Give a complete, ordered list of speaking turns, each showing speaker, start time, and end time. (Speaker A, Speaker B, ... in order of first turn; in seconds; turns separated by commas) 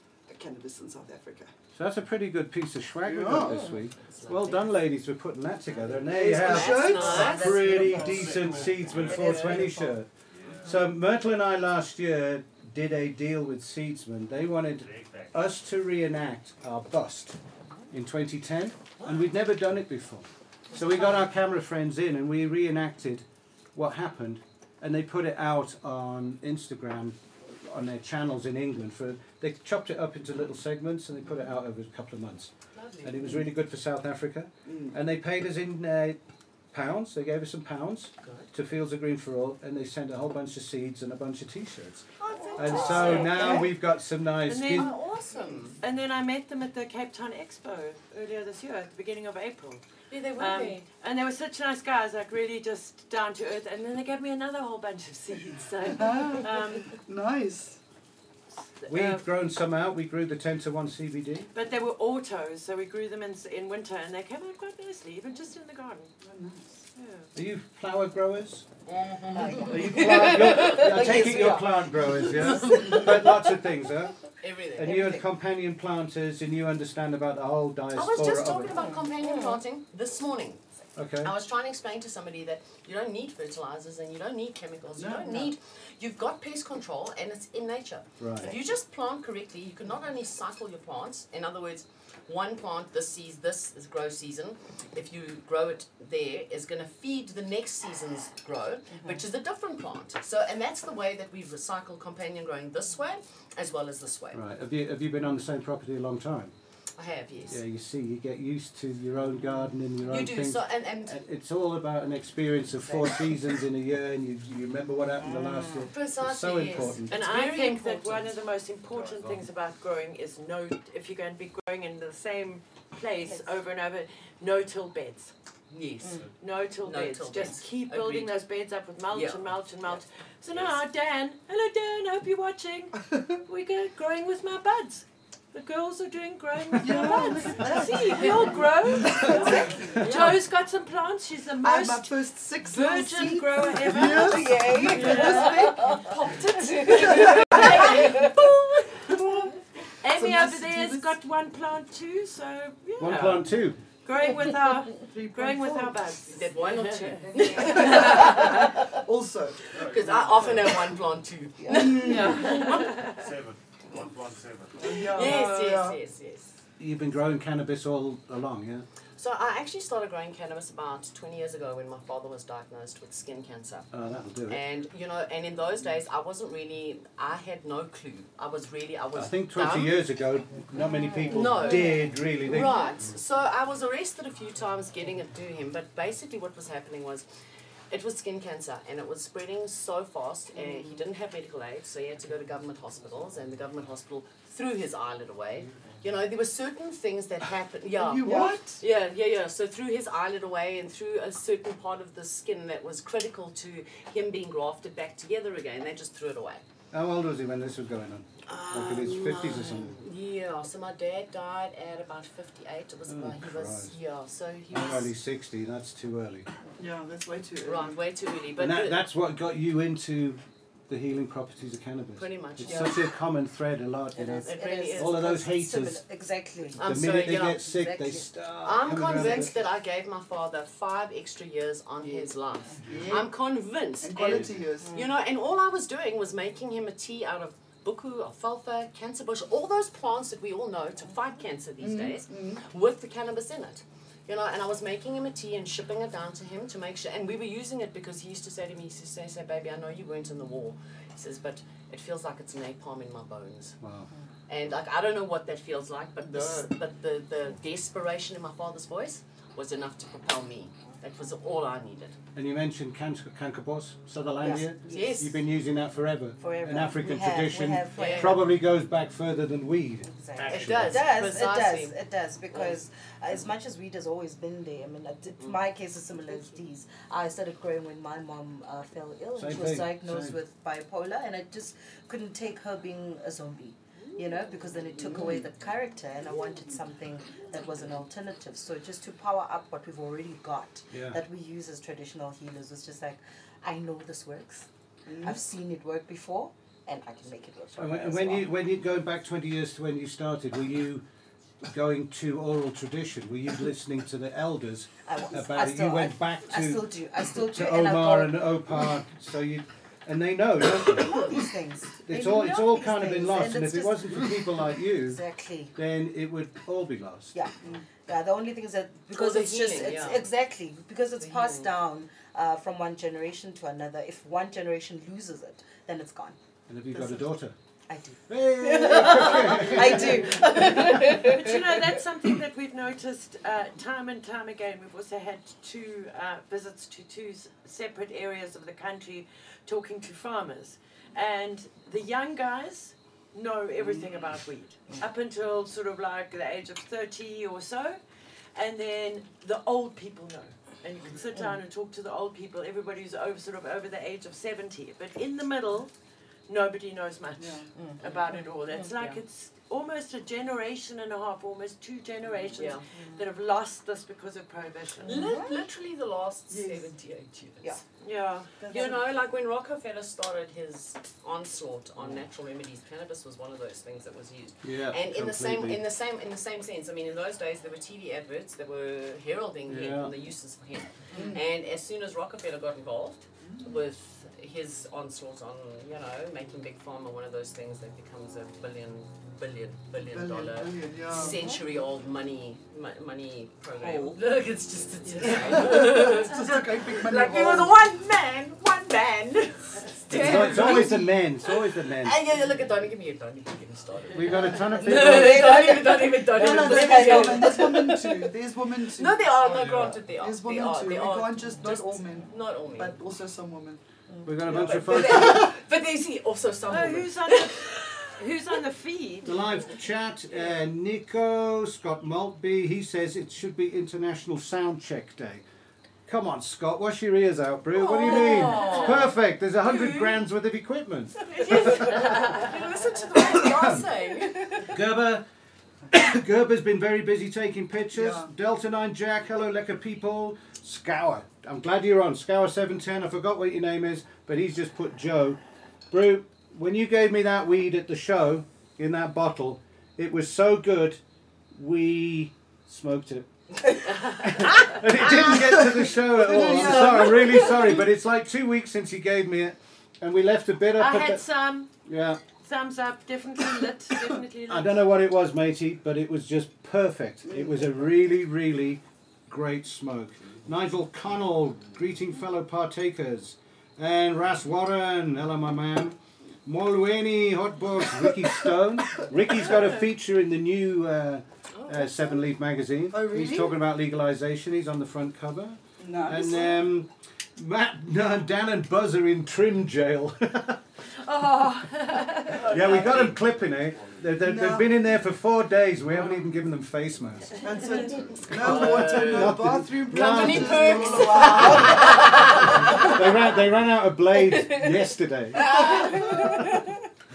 Speaker A: 0.3-1.5, Speaker B: 1.7-10.1, Speaker A: 3.0-3.7, Speaker C: 3.5-4.7, Speaker C: 5.8-7.7, Speaker A: 6.1-7.4, Speaker D: 6.9-9.9, Speaker E: 7.6-9.7, Speaker C: 9.2-9.6, Speaker E: 10.3-10.8, Speaker B: 10.6-17.4, Speaker E: 14.7-15.5, Speaker B: 17.9-36.2, Speaker C: 32.8-33.4, Speaker A: 34.7-35.0, Speaker B: 36.7-45.0, Speaker C: 38.2-38.5, Speaker C: 42.2-43.7, Speaker F: 42.8-43.5, Speaker F: 44.5-44.9, Speaker C: 44.7-45.8, Speaker F: 45.8-49.8, Speaker C: 50.1-50.8, Speaker F: 50.4-57.0, Speaker A: 55.8-57.8, Speaker F: 58.6-59.3, Speaker B: 58.9-61.5, Speaker F: 61.5-66.1, Speaker A: 66.2-66.9, Speaker F: 67.0-67.3, Speaker B: 67.3-68.7, Speaker C: 68.9-69.9, Speaker D: 69.2-73.1, Speaker B: 69.7-74.2, Speaker C: 74.4-75.2, Speaker B: 74.8-78.8, Speaker D: 74.8-75.2, Speaker C: 77.9-80.6, Speaker D: 78.7-79.6, Speaker B: 81.0-81.3, Speaker C: 81.2-104.4, Speaker A: 85.0-85.5, Speaker B: 88.2-88.6, Speaker B: 104.3-106.5, Speaker C: 107.0-107.6, Speaker B: 107.5-117.1, Speaker C: 110.0-111.2, Speaker D: 115.3-115.9, Speaker C: 115.9-118.3, Speaker F: 117.1-125.3, Speaker E: 118.8-119.5, Speaker C: 125.7-126.3, Speaker E: 126.0-126.3, Speaker F: 126.4-149.5, Speaker C: 126.8-128.3, Speaker C: 129.1-130.8, Speaker A: 136.7-140.2, Speaker D: 139.3-140.0, Speaker A: 141.6-146.4, Speaker D: 143.9-148.2, Speaker A: 146.9-148.1, Speaker C: 147.6-148.2, Speaker F: 150.0-153.5, Speaker A: 150.1-151.1, Speaker B: 153.0-153.8, Speaker F: 154.1-158.8, Speaker A: 155.0-156.1, Speaker C: 156.3-158.9, Speaker A: 157.3-160.5, Speaker E: 159.7-161.0, Speaker C: 159.8-162.8, Speaker D: 161.6-162.0, Speaker A: 161.7-162.6, Speaker F: 161.9-163.3, Speaker E: 162.9-165.2, Speaker A: 164.8-166.0, Speaker C: 165.0-166.6, Speaker B: 166.8-168.9, Speaker C: 169.2-173.9, Speaker B: 173.9-174.6, Speaker C: 174.5-180.0, Speaker B: 179.1-182.9, Speaker D: 180.8-181.3, Speaker C: 181.3-187.3, Speaker C: 187.9-206.6, Speaker A: 190.6-190.9, Speaker A: 197.9-198.8, Speaker D: 198.2-198.5, Speaker B: 206.9-210.0, Speaker C: 208.4-215.1, Speaker B: 213.1-214.0, Speaker B: 214.7-216.5, Speaker A: 216.8-218.1, Speaker C: 217.6-219.0, Speaker B: 218.6-226.0, Speaker C: 222.2-223.1, Speaker D: 224.1-228.3, Speaker C: 224.4-225.3, Speaker C: 226.8-227.7, Speaker B: 226.8-229.6, Speaker C: 228.6-253.8, Speaker A: 232.0-232.3, Speaker E: 232.8-233.2, Speaker A: 232.9-233.3, Speaker A: 234.0-235.0, Speaker E: 234.3-234.5, Speaker A: 241.8-242.6, Speaker B: 253.8-254.1, Speaker C: 254.5-262.2, Speaker A: 256.2-256.7, Speaker B: 262.4-271.1, Speaker D: 264.4-265.3, Speaker C: 264.9-265.4, Speaker D: 266.4-268.4, Speaker C: 267.9-268.4, Speaker D: 270.0-294.7, Speaker C: 270.4-272.0, Speaker C: 272.5-272.8, Speaker B: 279.4-280.4, Speaker A: 285.0-285.4, Speaker B: 290.9-291.2, Speaker A: 295.1-295.4, Speaker D: 295.2-298.5, Speaker B: 297.8-301.0, Speaker B: 301.6-311.4, Speaker D: 305.1-308.5, Speaker D: 310.9-314.4, Speaker B: 312.1-315.2, Speaker D: 315.0-315.8, Speaker B: 315.8-317.4, Speaker D: 318.1-326.4, Speaker C: 319.1-320.3, Speaker C: 321.2-321.7, Speaker B: 326.7-327.6, Speaker D: 327.9-331.6, Speaker B: 328.3-330.7, Speaker F: 330.7-348.0, Speaker F: 348.6-355.9, Speaker F: 356.5-365.3, Speaker A: 357.4-357.7, Speaker D: 357.8-358.0, Speaker C: 358.0-358.4, Speaker C: 358.9-359.2, Speaker C: 362.5-362.9, Speaker D: 362.9-363.2, Speaker C: 365.1-367.8, Speaker D: 365.1-365.6, Speaker A: 366.5-366.9, Speaker F: 368.0-368.6, Speaker A: 368.6-369.1, Speaker C: 368.6-408.2, Speaker B: 374.6-375.8, Speaker B: 379.7-380.1, Speaker A: 381.1-381.5, Speaker A: 383.4-383.9, Speaker A: 389.9-391.4, Speaker D: 391.2-391.5, Speaker A: 393.7-394.2, Speaker A: 395.2-397.8, Speaker B: 400.1-402.2, Speaker A: 400.1-401.0, Speaker B: 404.1-405.7, Speaker D: 404.3-407.9, Speaker A: 406.3-413.8, Speaker C: 408.9-413.0, Speaker E: 409.4-410.1, Speaker B: 414.2-415.5, Speaker C: 414.5-418.1, Speaker A: 414.9-415.3, Speaker F: 416.7-419.5, Speaker B: 419.2-425.4, Speaker B: 426.1-432.1, Speaker C: 427.7-429.2, Speaker F: 428.6-428.8, Speaker C: 431.3-434.8, Speaker B: 433.3-433.9, Speaker B: 434.6-435.2, Speaker B: 435.9-445.4, Speaker A: 437.9-438.3, Speaker B: 445.9-451.0, Speaker B: 451.5-461.2, Speaker C: 453.9-454.8, Speaker A: 455.2-457.7, Speaker F: 460.8-461.7, Speaker B: 461.9-462.2, Speaker F: 462.4-464.8, Speaker B: 464.5-490.6, Speaker A: 467.3-467.7, Speaker C: 481.5-482.1, Speaker A: 482.9-483.6, Speaker A: 485.8-486.6, Speaker F: 491.0-492.8, Speaker B: 492.4-497.4, Speaker C: 492.5-493.2, Speaker A: 494.2-494.8, Speaker A: 497.4-502.9, Speaker F: 497.6-497.9, Speaker C: 498.3-503.0, Speaker B: 498.4-506.1, Speaker C: 505.5-506.2